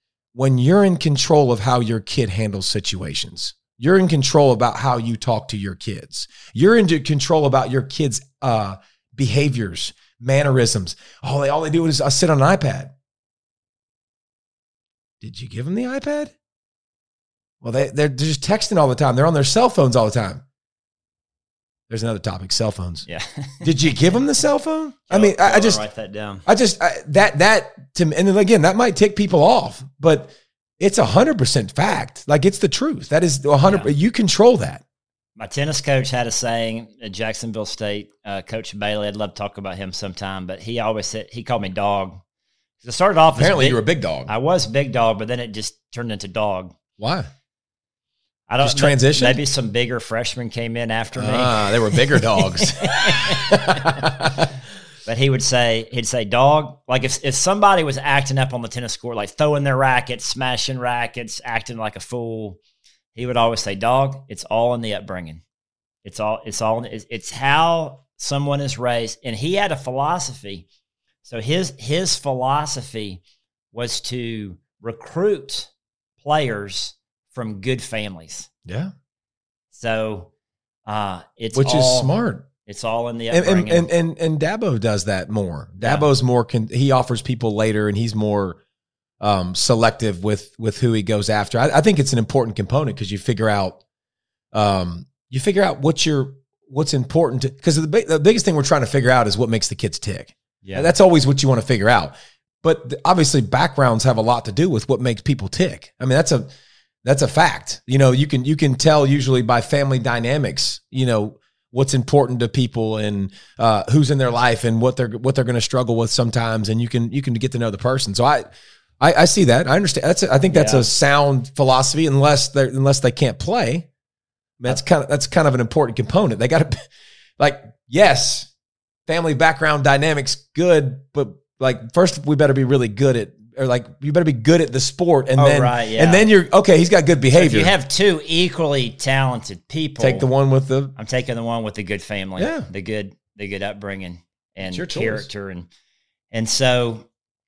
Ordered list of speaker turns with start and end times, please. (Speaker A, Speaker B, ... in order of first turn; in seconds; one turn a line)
Speaker A: 0.3-12.9
Speaker A: 15.2-16.3
Speaker A: 17.6-20.4
Speaker A: 21.9-23.1
Speaker B: 23.1-24.0
Speaker A: 23.6-25.8
Speaker B: 25.1-26.4
Speaker A: 26.4-34.8
Speaker B: 33.6-33.9
Speaker B: 35.4-42.2
Speaker B: 42.8-46.7
Speaker A: 43.4-44.3
Speaker A: 47.0-47.3
Speaker B: 48.5-54.1
Speaker A: 48.6-49.4
Speaker A: 51.1-54.5
Speaker B: 55.0-62.6
Speaker B: 63.1-65.4
Speaker B: 66.0-70.7
Speaker B: 71.2-75.7
Speaker B: 76.2-78.5
Speaker A: 78.7-78.9
Speaker B: 79.7-80.3
Speaker B: 80.8-83.9
Speaker A: 81.5-82.5
Speaker A: 83.3-88.6
Speaker B: 85.8-86.1
Speaker A: 89.2-93.8
Speaker A: 94.5-106.5
Speaker B: 100.6-100.9
Speaker A: 107.0-118.5
Speaker A: 119.0-123.9
Speaker B: 120.5-120.9
Speaker A: 124.6-126.8
Speaker A: 127.4-128.5
Speaker A: 129.1-137.7
Speaker B: 135.3-136.3
Speaker B: 137.3-140.3
Speaker A: 140.0-140.9
Speaker B: 140.9-145.7
Speaker A: 142.4-142.7
Speaker A: 144.6-145.3
Speaker B: 146.3-147.1